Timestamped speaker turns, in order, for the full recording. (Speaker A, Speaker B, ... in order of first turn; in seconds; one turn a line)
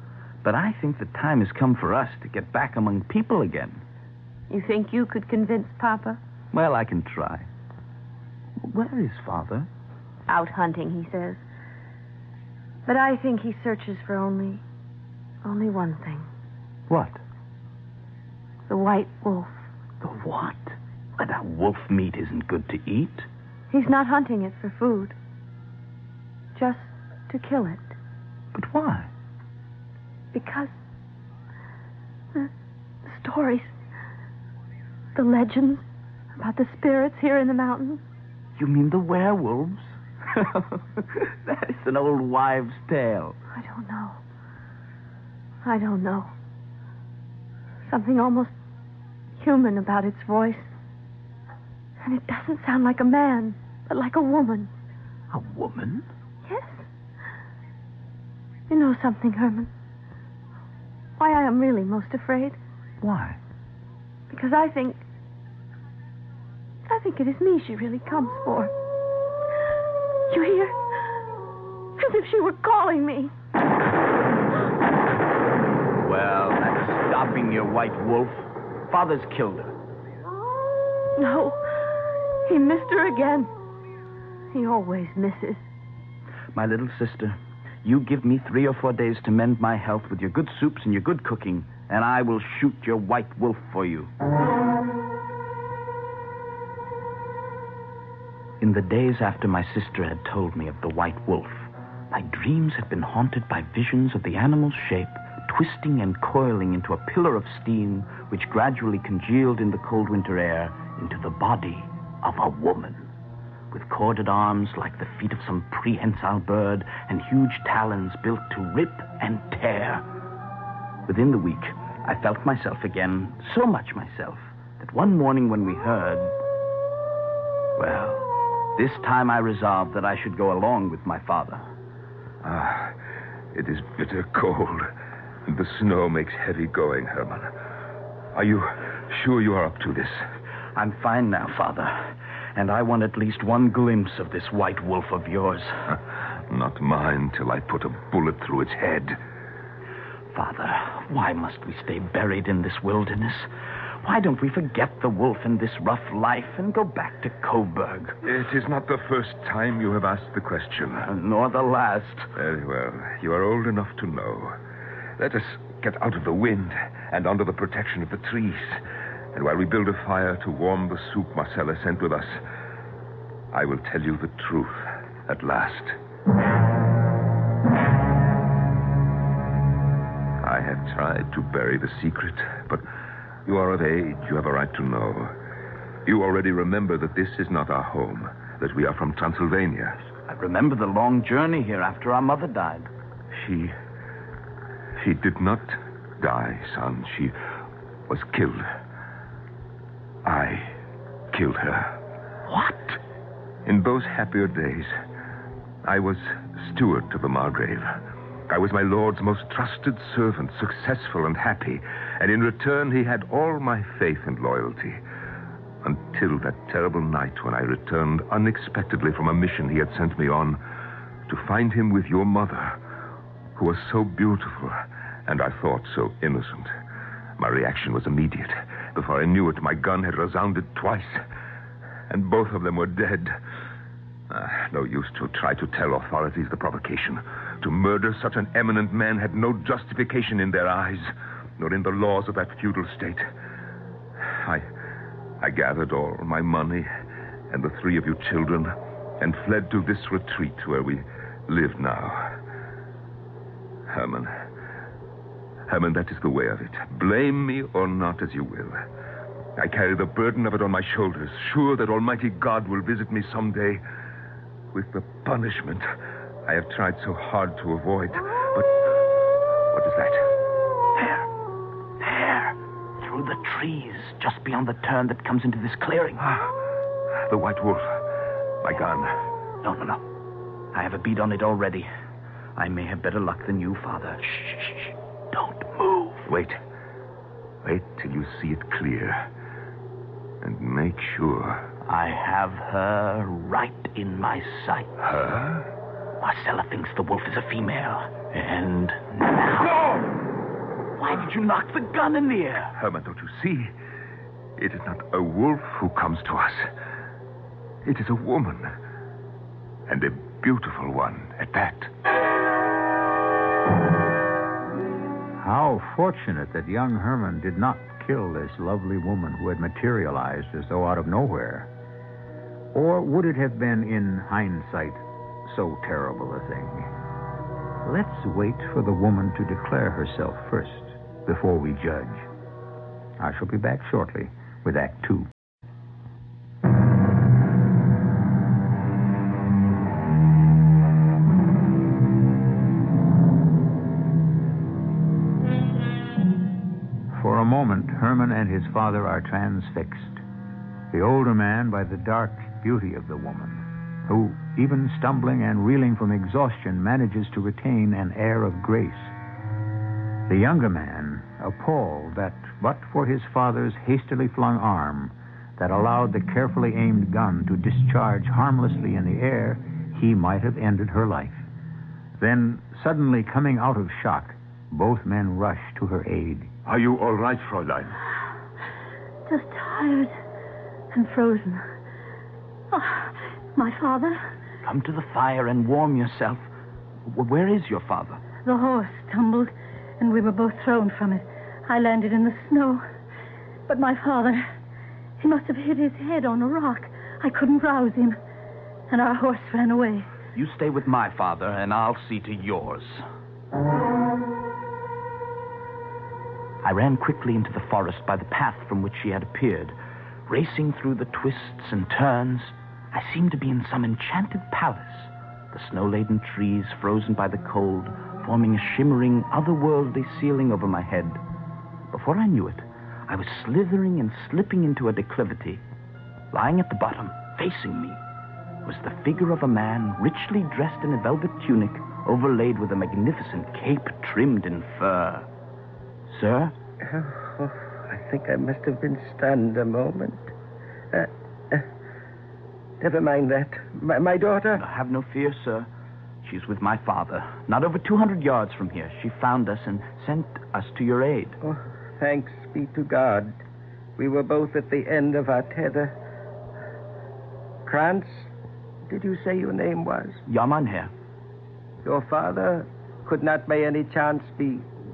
Speaker A: 0.4-3.8
Speaker B: 4.5-6.2
Speaker A: 6.5-7.5
Speaker A: 8.6-9.7
Speaker B: 10.3-11.4
Speaker B: 12.8-14.6
Speaker B: 15.4-16.3
Speaker A: 16.9-17.2
Speaker B: 18.7-19.5
Speaker A: 20.0-23.3
Speaker B: 23.7-25.1
Speaker B: 26.5-27.9
Speaker A: 28.5-29.1
Speaker B: 30.3-30.8
Speaker B: 33.0-33.7
Speaker B: 35.1-35.8
Speaker B: 36.4-38.0
Speaker A: 38.6-43.4
Speaker B: 43.5-44.2
Speaker B: 45.6-46.3
Speaker B: 47.9-48.5
Speaker B: 49.4-50.7
Speaker B: 52.0-54.7
Speaker A: 55.3-56.0
Speaker B: 56.5-56.9
Speaker B: 58.7-59.7
Speaker B: 61.2-62.6
Speaker A: 63.0-63.4
Speaker B: 64.3-65.0
Speaker B: 66.8-68.7
Speaker B: 70.3-70.8
Speaker B: 72.0-73.3
Speaker A: 76.0-79.7
Speaker B: 81.2-81.6
Speaker B: 82.5-83.5
Speaker B: 84.5-85.6
Speaker A: 86.5-94.1
Speaker A: 98.6-113.1
Speaker A: 113.7-120.0
Speaker A: 121.0-126.3
Speaker A: 127.8-128.2
Speaker A: 128.8-131.6
Speaker C: 132.4-132.9
Speaker C: 133.5-134.9
Speaker C: 135.5-137.5
Speaker C: 138.3-140.2
Speaker A: 140.7-145.9
Speaker C: 146.5-149.2
Speaker A: 150.3-153.5
Speaker A: 154.0-158.2
Speaker C: 158.2-161.1
Speaker A: 161.0-162.3
Speaker C: 162.3-164.6
Speaker C: 165.2-168.8
Speaker C: 169.3-172.4
Speaker C: 173.5-175.9
Speaker C: 180.4-182.8
Speaker C: 183.4-185.3
Speaker C: 186.1-190.1
Speaker A: 190.3-192.9
Speaker C: 193.3-193.7
Speaker C: 194.9-197.3
Speaker C: 198.1-198.7
Speaker C: 200.2-200.8
Speaker C: 201.3-201.9
Speaker A: 202.5-203.0
Speaker C: 203.6-204.9
Speaker C: 205.8-207.9
Speaker C: 208.5-215.0
Speaker C: 215.8-220.6
Speaker C: 221.3-222.8
Speaker C: 223.5-226.7
Speaker C: 227.4-231.2
Speaker C: 232.1-233.3
Speaker C: 234.3-243.3
Speaker C: 244.2-244.7
Speaker C: 245.4-246.9
Speaker C: 247.5-252.3
Speaker C: 253.9-254.3
Speaker C: 255.7-258.8
Speaker C: 259.6-263.8
Speaker C: 264.7-265.9
Speaker C: 266.4-268.8
Speaker C: 269.7-270.2
Speaker A: 271.0-271.2
Speaker A: 272.0-276.2
Speaker C: 276.2-276.5
Speaker C: 277.3-278.0
Speaker C: 278.6-279.2
Speaker A: 279.6-280.0
Speaker A: 280.7-281.9
Speaker A: 282.6-286.3
Speaker C: 286.2-286.6
Speaker C: 287.6-289.3
Speaker C: 290.4-291.6
Speaker A: 291.8-295.0
Speaker C: 295.0-295.6
Speaker A: 296.2-299.9
Speaker A: 301.0-302.7
Speaker C: 302.7-303.7
Speaker C: 304.6-306.7
Speaker C: 307.8-308.7
Speaker C: 309.9-311.9
Speaker D: 315.4-321.7
Speaker D: 322.7-326.9
Speaker D: 327.8-332.3
Speaker D: 333.2-335.3
Speaker D: 347.1-350.2
Speaker D: 350.9-359.1
Speaker D: 360.3-371.4
Speaker D: 372.2-376.5
Speaker C: 376.6-378.0
Speaker E: 379.2-380.1
Speaker E: 380.9-381.6
Speaker E: 382.7-384.2
Speaker A: 384.6-386.5
Speaker A: 387.1-388.2
Speaker E: 388.4-392.8
Speaker E: 393.7-394.5
Speaker E: 395.2-398.2
Speaker E: 398.9-400.1
Speaker A: 400.3-403.1
Speaker A: 406.6-409.7
Speaker A: 410.3-421.2
Speaker A: 421.9-425.6
Speaker A: 426.3-428.0
Speaker A: 428.6-435.3
Speaker A: 436.1-436.5
Speaker F: 436.8-440.3
Speaker F: 440.9-441.6
Speaker F: 442.8-444.6
Speaker A: 444.6-445.7
Speaker A: 446.2-451.4
Speaker F: 451.4-453.4
Speaker F: 454.0-455.9
Speaker F: 457.6-458.3
Speaker F: 458.9-460.2
Speaker A: 460.2-460.9
Speaker F: 461.8-464.6